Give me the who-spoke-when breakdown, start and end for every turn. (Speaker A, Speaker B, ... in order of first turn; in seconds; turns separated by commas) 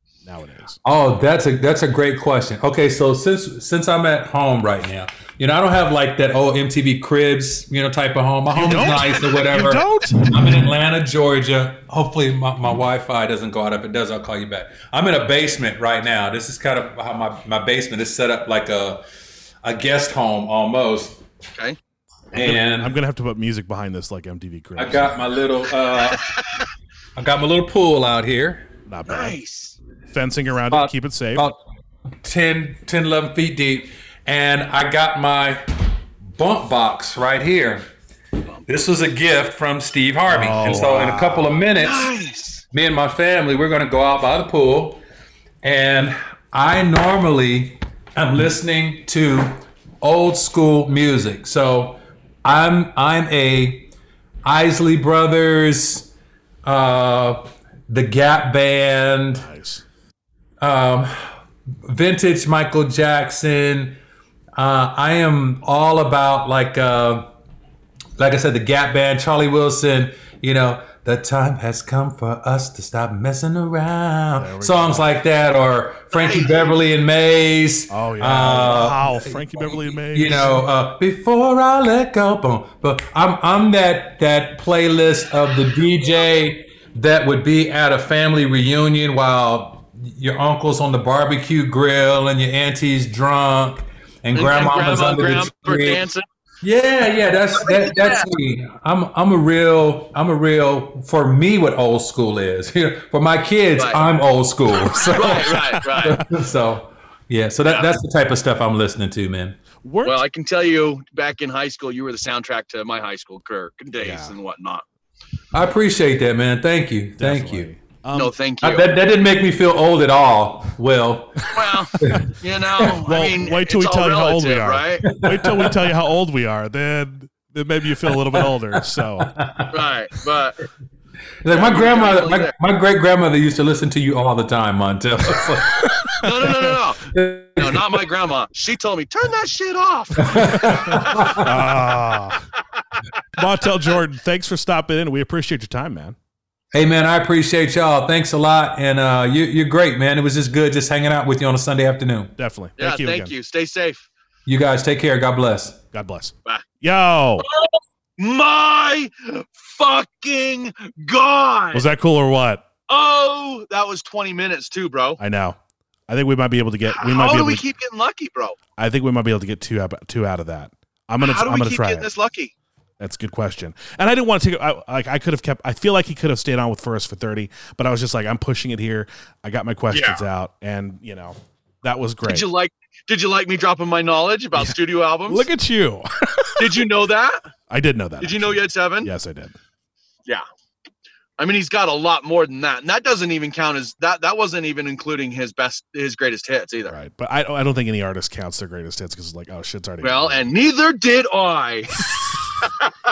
Speaker A: 0.2-0.8, Speaker B: 0.8-19.0, Speaker A: 8.5-10.5, Speaker B: 19.6-21.2, Speaker B: 22.3-23.0, Speaker A: 22.4-25.2, Speaker B: 24.8-26.2, Speaker B: 27.2-28.7, Speaker A: 28.9-29.4, Speaker C: 29.1-29.8, Speaker A: 30.1-31.5, Speaker B: 30.7-31.6, Speaker B: 32.2-35.6, Speaker B: 36.4-37.9, Speaker B: 38.7-42.1, Speaker A: 40.3-41.6, Speaker C: 41.8-42.6, Speaker B: 42.7-45.0, Speaker B: 45.6-53.9, Speaker B: 54.4-56.1, Speaker B: 56.6-59.5, Speaker A: 59.3-59.9, Speaker B: 60.6-61.3, Speaker B: 61.9-64.0, Speaker B: 64.6-67.3, Speaker B: 68.2-96.0, Speaker A: 74.4-75.1, Speaker C: 76.1-76.8, Speaker A: 77.9-80.6, Speaker C: 94.3-96.2, Speaker B: 96.6-109.6, Speaker C: 97.5-98.3, Speaker C: 103.8-104.0, Speaker C: 105.1-106.2, Speaker A: 105.5-106.2, Speaker C: 107.7-107.9, Speaker A: 109.8-110.2, Speaker C: 110.0-114.8, Speaker A: 114.0-114.4, Speaker B: 115.5-117.7, Speaker A: 117.2-118.3, Speaker C: 118.1-118.9, Speaker B: 118.6-122.2, Speaker C: 121.5-125.0, Speaker A: 122.8-129.3, Speaker B: 125.0-125.9, Speaker B: 128.1-129.8, Speaker C: 129.7-130.6, Speaker B: 131.4-138.1, Speaker C: 131.5-132.5, Speaker C: 136.2-140.4, Speaker B: 140.2-141.7, Speaker C: 140.9-141.4, Speaker A: 141.4-142.5, Speaker A: 143.4-146.2, Speaker B: 146.7-152.3, Speaker A: 152.4-153.3, Speaker C: 152.8-154.1, Speaker B: 154.5-155.8, Speaker A: 155.9-157.5, Speaker C: 158.2-161.9, Speaker A: 161.7-162.7, Speaker C: 162.9-165.2, Speaker A: 165.2-167.7, Speaker C: 166.9-168.6, Speaker A: 168.8-172.1, Speaker C: 171.2-172.5, Speaker A: 173.0-182.5, Speaker C: 179.9-180.2, Speaker C: 182.3-185.5, Speaker A: 184.6-186.9, Speaker C: 186.6-187.4, Speaker A: 187.7-189.6, Speaker C: 188.2-189.1, Speaker C: 191.4-196.9, Speaker A: 196.8-200.5, Speaker C: 200.0-201.9